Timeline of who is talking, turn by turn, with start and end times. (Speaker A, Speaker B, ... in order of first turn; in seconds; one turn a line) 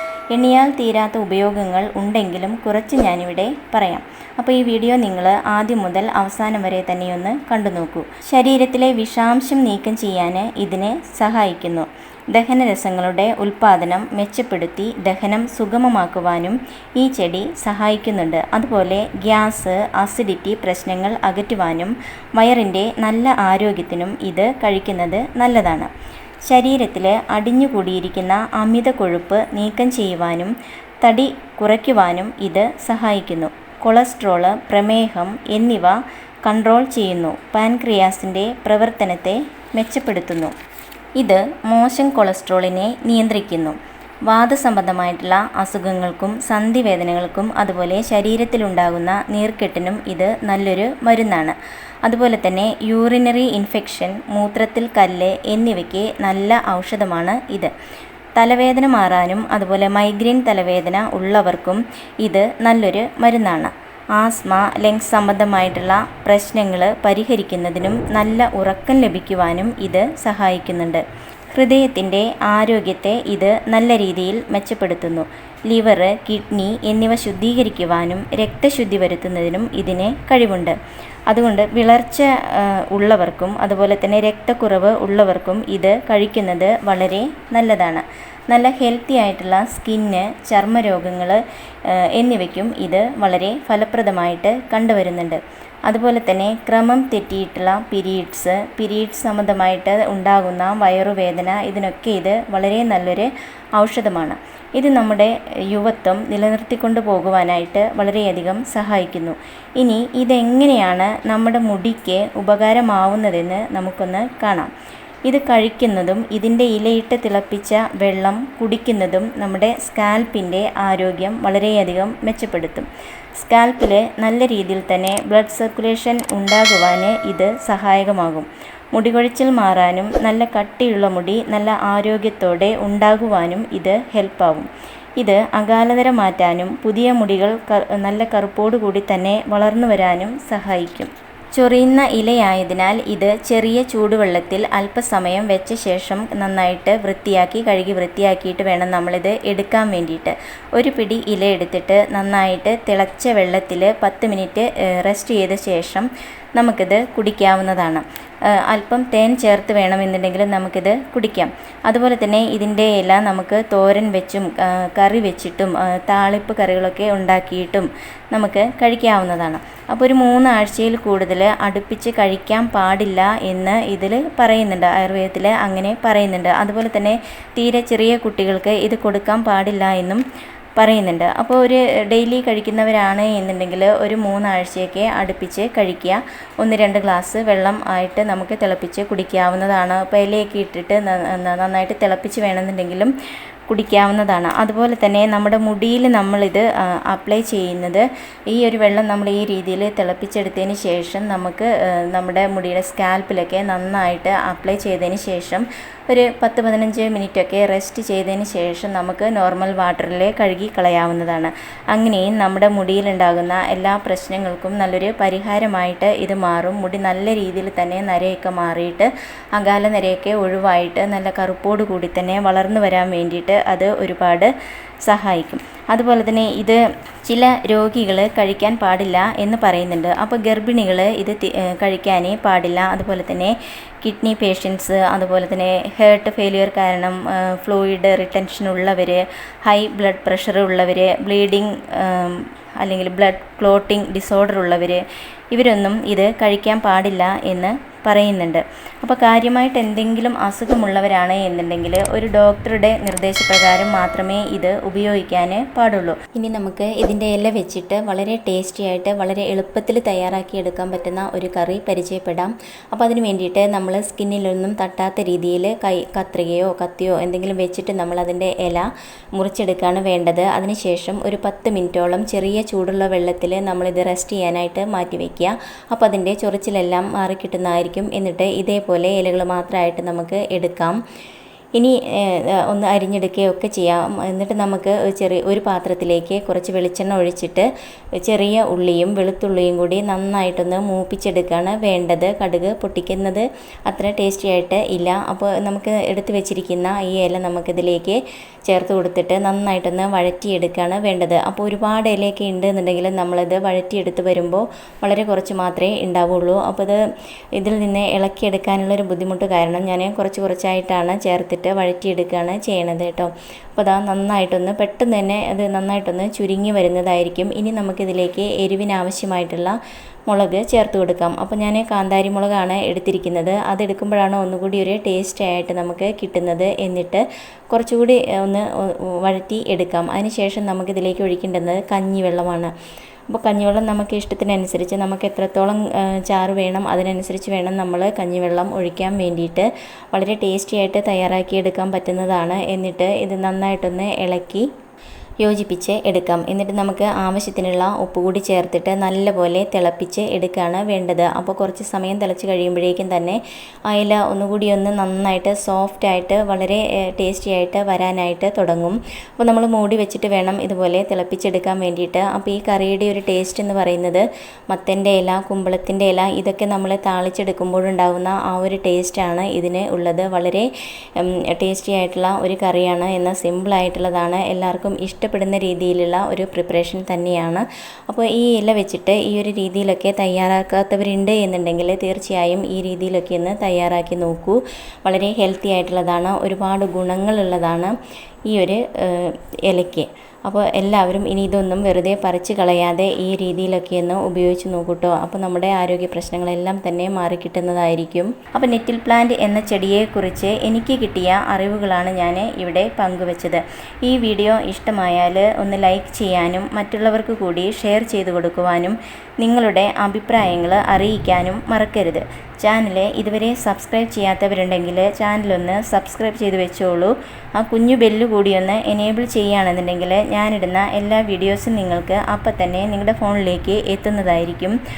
Speaker A: 0.3-25.9
Speaker A: 26.5-40.5
Speaker A: 41.2-57.7
Speaker A: 58.4-80.8
Speaker A: 81.3-114.7
Speaker A: 115.3-134.7
Speaker A: 135.2-180.2
Speaker A: 180.8-193.1
Speaker A: 193.7-224.5
Speaker A: 225.1-281.0
Speaker A: 281.8-287.7
Speaker A: 288.2-307.0
Speaker A: 307.6-319.8
Speaker A: 320.3-332.7
Speaker A: 333.3-344.7
Speaker A: 345.4-370.7
Speaker A: 371.2-387.9
Speaker A: 388.5-424.8